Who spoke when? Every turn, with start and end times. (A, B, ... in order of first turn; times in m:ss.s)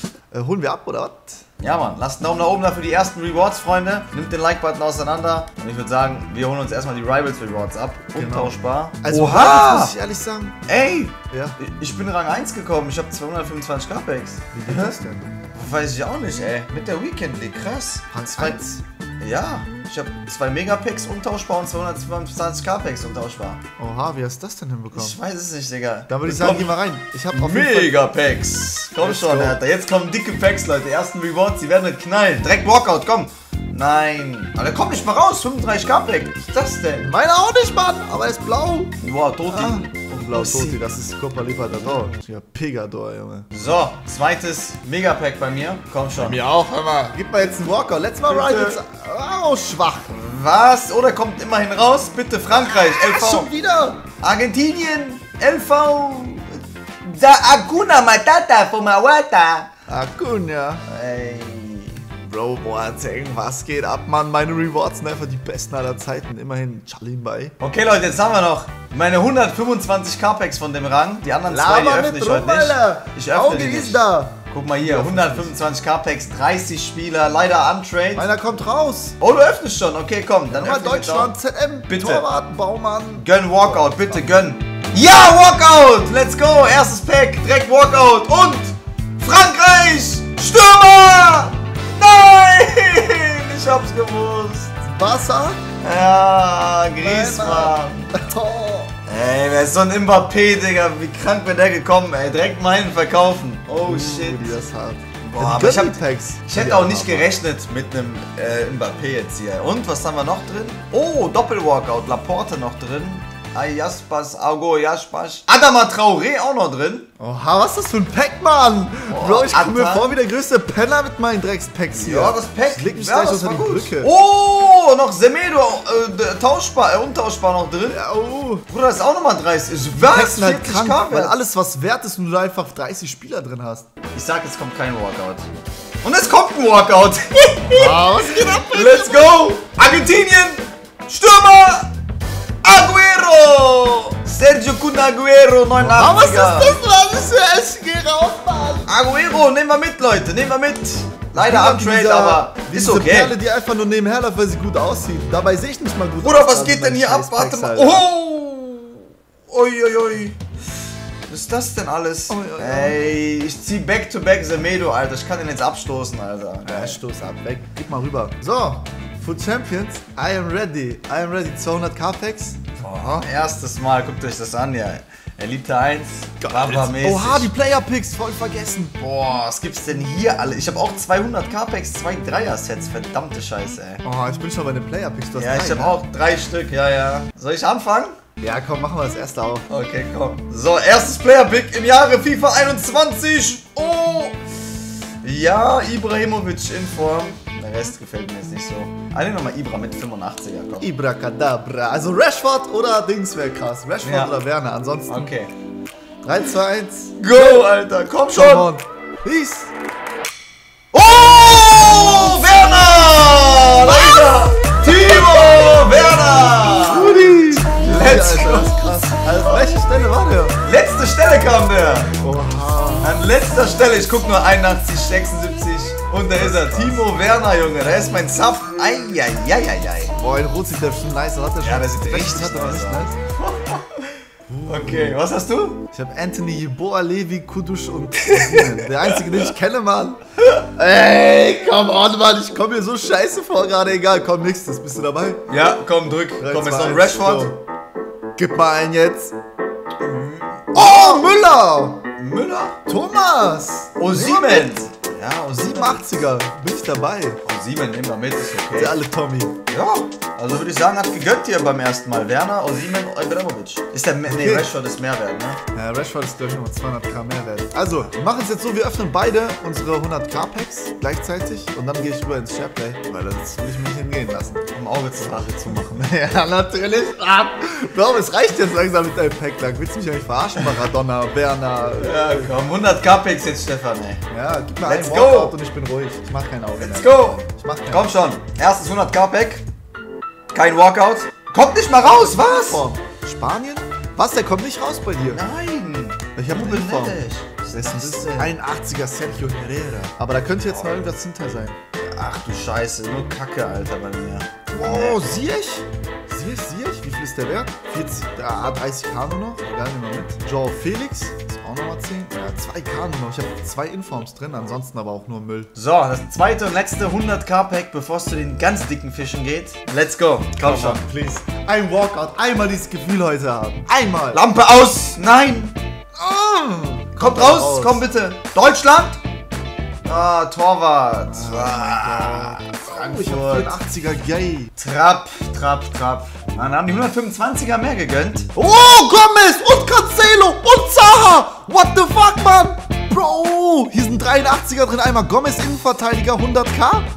0:00.3-0:01.4 A
0:01.6-0:09.9 B
0:08.1-0:10.6 A
0:10.7-0:15.0 B
0:11.3-0:11.6 A
0:14.5-0:15.3 A
0:15.5-0:23.6 B
0:18.1-0:18.8 A
0:23.8-0:25.2 A
0:24.9-0:26.7 B
0:26.1-0:28.0 A
0:27.3-0:37.1 B
0:29.0-0:29.6 A
0:37.0-0:39.0 A
0:39.0-0:40.8 B
0:39.5-0:43.5 A
0:43.5-0:46.4 B
0:46.2-0:50.1 A
0:48.2-0:48.8 B
0:50.1-0:53.5 B
0:52.6-0:54.0 A
0:54.2-0:59.7 B
0:59.9-1:00.8 A
1:00.9-1:02.0 B
1:02.2-1:07.5 A
1:07.6-1:18.3 B
1:11.5-1:15.5 A
1:18.1-1:19.2 A
1:19.2-1:21.3 B
1:20.5-1:24.3 A
1:21.9-1:22.3 B
1:23.2-1:34.7 B
1:34.8-1:35.6 A
1:35.8-1:38.1 B
1:37.0-1:38.9 A
1:39.0-1:44.6 B
1:43.8-1:47.3 A
1:45.2-1:57.1 B
1:57.2-2:04.1 A
1:59.1-2:00.1 B
2:01.9-2:08.0 B
2:07.9-2:08.6 A
2:08.7-2:11.3 B
2:09.9-2:13.9 A
2:14.1-2:15.4 B
2:16.0-2:21.9 B
2:17.7-2:19.5 A
2:22.6-2:26.8 B
2:25.8-2:28.9 A
2:28.8-2:33.4 B
2:31.3-2:38.0 A
2:36.2-2:40.4 B
2:41.3-2:47.0 B
2:42.3-2:43.0 A
2:46.6-2:53.2 A
2:52.8-2:57.5 B
2:56.4-2:59.0 A
2:59.0-3:04.0 B
3:04.0-3:06.0 A
3:05.3-3:08.1 B
3:08.4-3:09.7 A
3:09.7-3:14.4 B
3:15.2-3:20.9 B
3:20.8-3:25.3 A
3:24.0-3:24.3 B
3:25.1-3:25.5 B
3:26.2-3:27.6 A
3:27.2-3:28.7 B
3:28.3-3:29.7 A
3:30.9-3:39.8 B
3:33.9-3:35.8 A
3:36.7-3:40.6 A
3:40.6-3:42.1 B
3:42.2-3:43.2 A
3:43.0-3:50.1 B
3:46.4-3:47.0 A
3:50.2-3:53.1 A
3:51.6-3:55.8 B
3:54.5-3:55.2 A
3:55.9-4:00.2 A
3:58.2-3:59.5 B
4:00.7-4:05.4 A
4:05.5-4:07.5 B
4:06.4-4:07.6 A
4:08.4-4:09.3 A
4:10.0-4:11.3 B
4:10.7-4:12.0 A
4:12.2-4:12.8 B
4:12.8-4:14.8 A
4:14.0-4:16.0 B
4:15.5-4:17.4 A
4:17.4-4:19.0 B
4:18.7-4:19.6 A
4:19.7-4:25.6 B
4:24.3-4:24.7 A
4:25.7-4:42.5 A
4:34.7-4:36.0 B
4:42.0-4:44.2 B
4:44.3-4:48.1 A
4:44.8-4:45.5 B
4:46.8-4:49.6 B
4:50.5-4:52.8 B
4:52.1-4:55.4 A
4:55.3-4:58.5 B
4:56.4-4:57.2 A
4:57.7-5:01.8 A
5:00.7-5:01.0 B
5:02.0-5:05.3 B
5:04.7-5:15.7 A
5:15.7-5:21.0 B
5:20.6-5:24.4 A
5:24.3-5:25.8 B
5:26.2-5:28.0 A
5:27.2-5:29.2 B
5:30.0-5:33.8 B
5:31.3-5:34.7 A
5:34.8-5:38.5 B
5:38.5-5:47.1 A